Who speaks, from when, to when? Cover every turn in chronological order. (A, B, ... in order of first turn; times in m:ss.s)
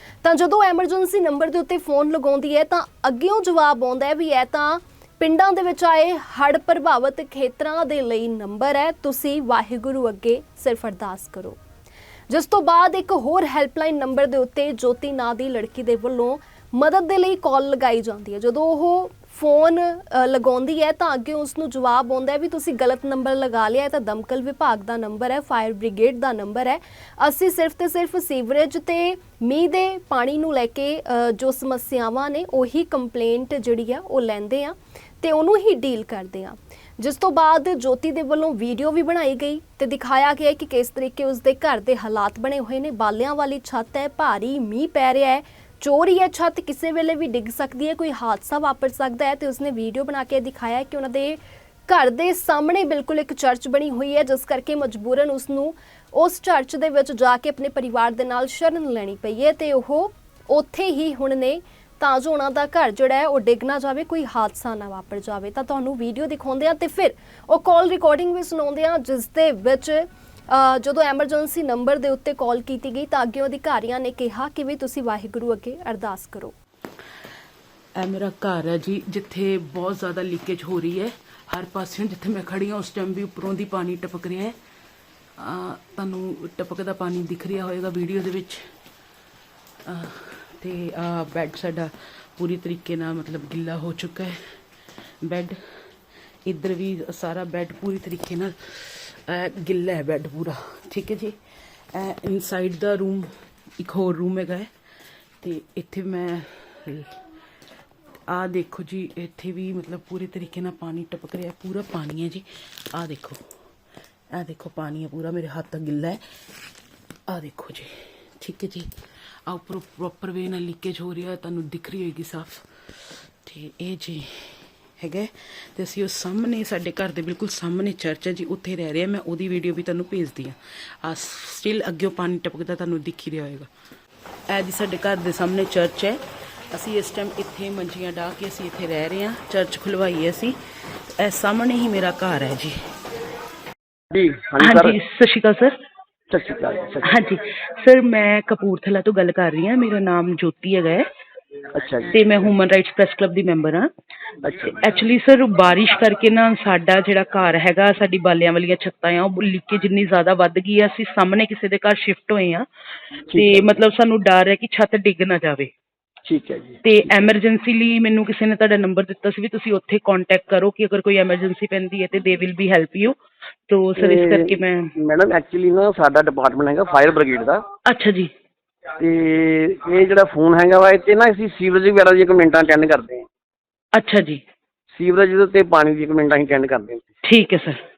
0:00.2-0:11.6 A
0:12.3-1:16.5 A
1:18.0-1:24.6 B
1:25.4-1:28.7 B
1:29.9-1:34.6 B
1:35.2-1:35.6 B
1:36.4-1:41.4 B
1:41.9-1:44.7 B
1:45.4-1:47.2 B
1:48.3-1:53.4 B
1:54.3-1:56.2 B
1:57.3-1:58.9 B
1:59.5-2:02.7 B
2:03.4-2:13.7 B
2:14.5-2:16.2 B
2:16.7-2:20.6 B
2:21.2-2:22.8 B
2:24.1-2:25.0 C
2:24.6-2:25.8 B
2:26.3-2:27.1 C
2:27.0-2:31.0 B
2:31.7-2:32.2 C
2:32.1-2:33.9 B
2:34.4-2:34.8 C
2:34.8-2:42.7 B
2:43.3-2:43.7 C
2:43.3-2:45.7 B
2:46.2-2:47.2 C
2:46.8-2:53.2 B
2:53.7-2:54.9 B
2:54.0-2:57.6 C
2:57.9-2:58.3 B
2:59.0-3:03.3 C
3:04.0-3:04.4 B
3:04.9-3:07.0 C
3:07.2-3:07.8 B